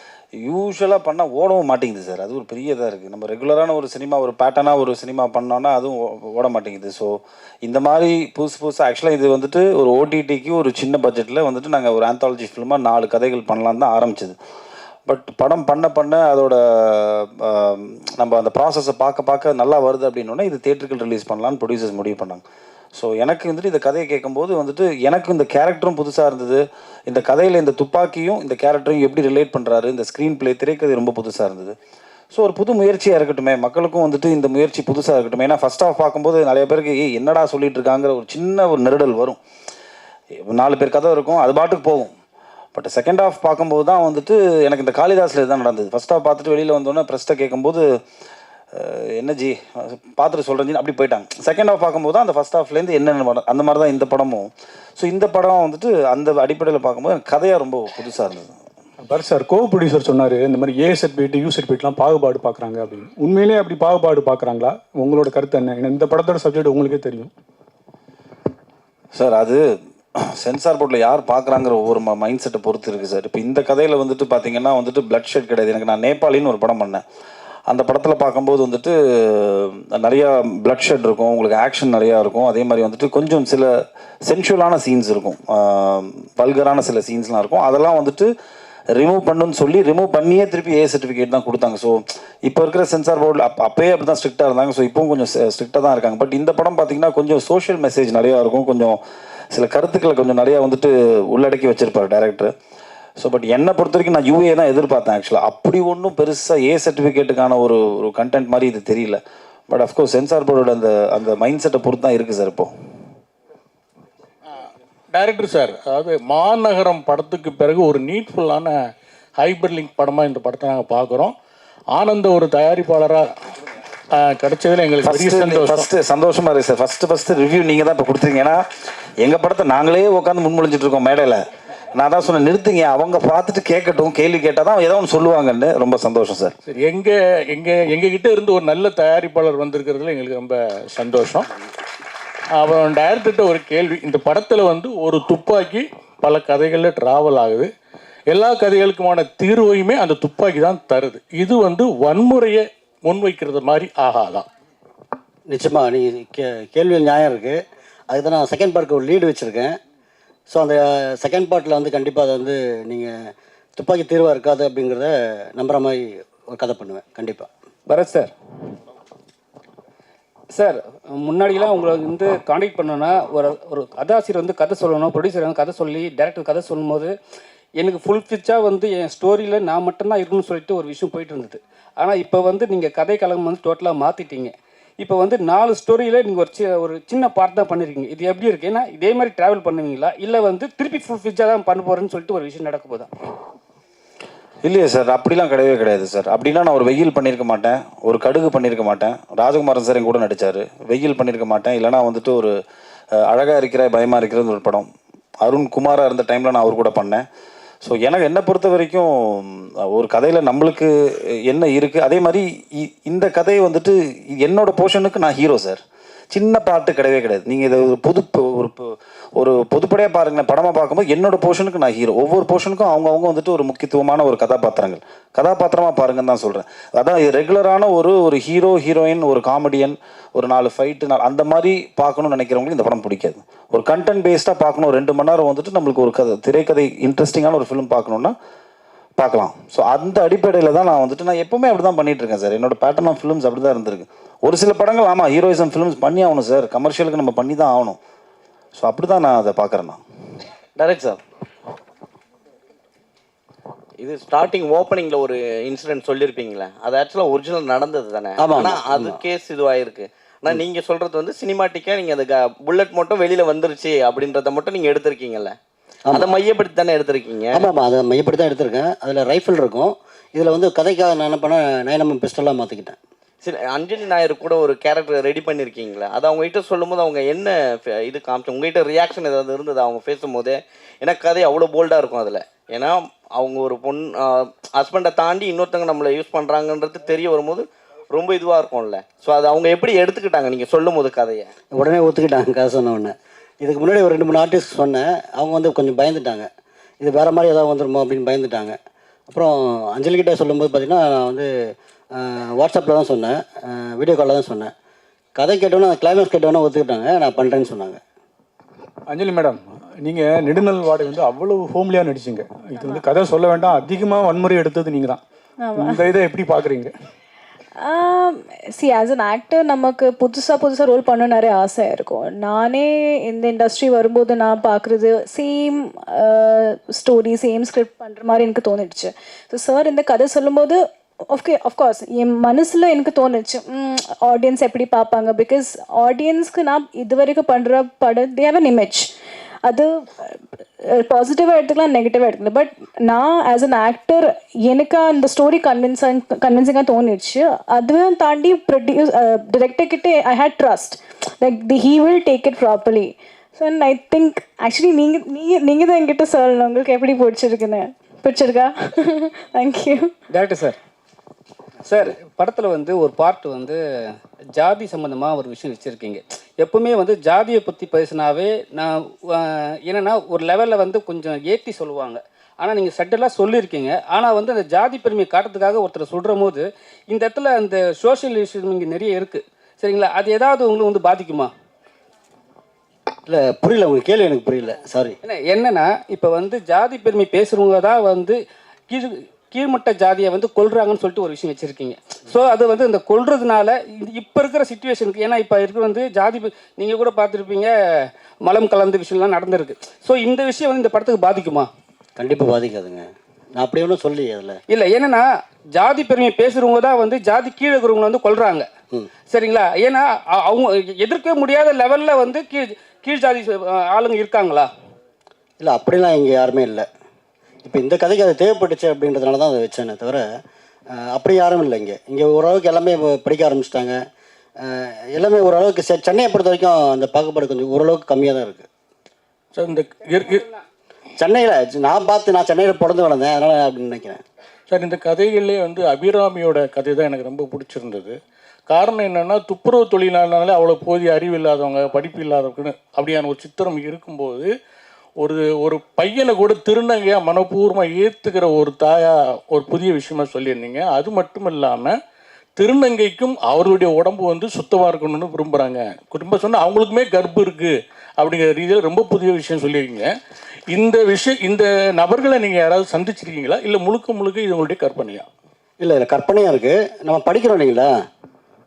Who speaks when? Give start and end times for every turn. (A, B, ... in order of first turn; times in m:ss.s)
0:00.4-0:14.4 A
0:15.1-0:22.4 A
0:23.0-0:31.8 A
0:32.3-0:39.4 A
0:40.5-0:42.1 A
0:42.8-0:47.8 A
0:48.8-0:58.6 A
0:59.0-1:07.3 B
1:09.1-1:17.0 A
1:17.7-1:28.3 A
1:29.0-1:39.0 A
1:39.5-1:42.5 A
1:43.2-1:52.7 A
1:55.1-1:58.8 C
1:59.4-2:01.4 C
2:01.9-2:03.4 C
2:04.1-2:05.9 C
2:05.0-2:08.6 A
2:09.2-2:11.4 A
2:12.0-2:16.5 A
2:16.7-2:21.5 C
2:22.6-2:27.7 C
2:28.3-2:34.5 C
2:35.5-2:39.8 D
2:40.5-2:47.5 D
2:47.9-2:48.3 E
2:50.5-2:57.1 E
2:57.8-3:13.1 E
3:14.6-3:22.6 A
3:23.2-3:24.9 A
3:25.4-3:27.2 A
3:27.8-3:30.9 A
3:31.5-3:35.8 A
3:36.3-3:58.4 A
3:59.2-4:08.0 A
4:08.8-4:10.0 A
4:10.8-4:11.2 F
4:14.0-4:25.6 F
4:18.4-4:19.2 D
4:26.1-4:27.7 F
4:27.5-4:33.0 D
4:33.4-4:51.5 F
4:51.7-4:56.5 D
4:57.0-4:58.8 D
4:59.3-5:04.7 D
5:05.4-5:08.0 D
5:09.1-5:15.2 B
5:12.8-5:13.0 G
5:15.6-5:16.0 G
5:15.8-5:16.9 B
5:17.8-5:39.1 G
5:39.7-6:00.1 G
6:00.3-6:00.8 E
6:01.9-6:21.5 E
6:23.3-6:25.2 D
6:25.2-6:41.7 E
6:42.2-6:44.6 D
6:44.7-6:48.7 E
6:49.3-6:54.7 E
6:55.6-6:56.9 D
6:57.6-7:00.4 D
7:00.9-7:04.0 D
7:04.6-7:08.7 D
7:09.5-7:10.4 C
7:11.2-7:14.2 D
7:14.7-7:18.2 C
7:18.7-7:24.5 C
7:25.2-7:32.0 C
7:32.6-7:40.2 C
7:40.7-7:45.3 C
7:45.8-7:47.9 D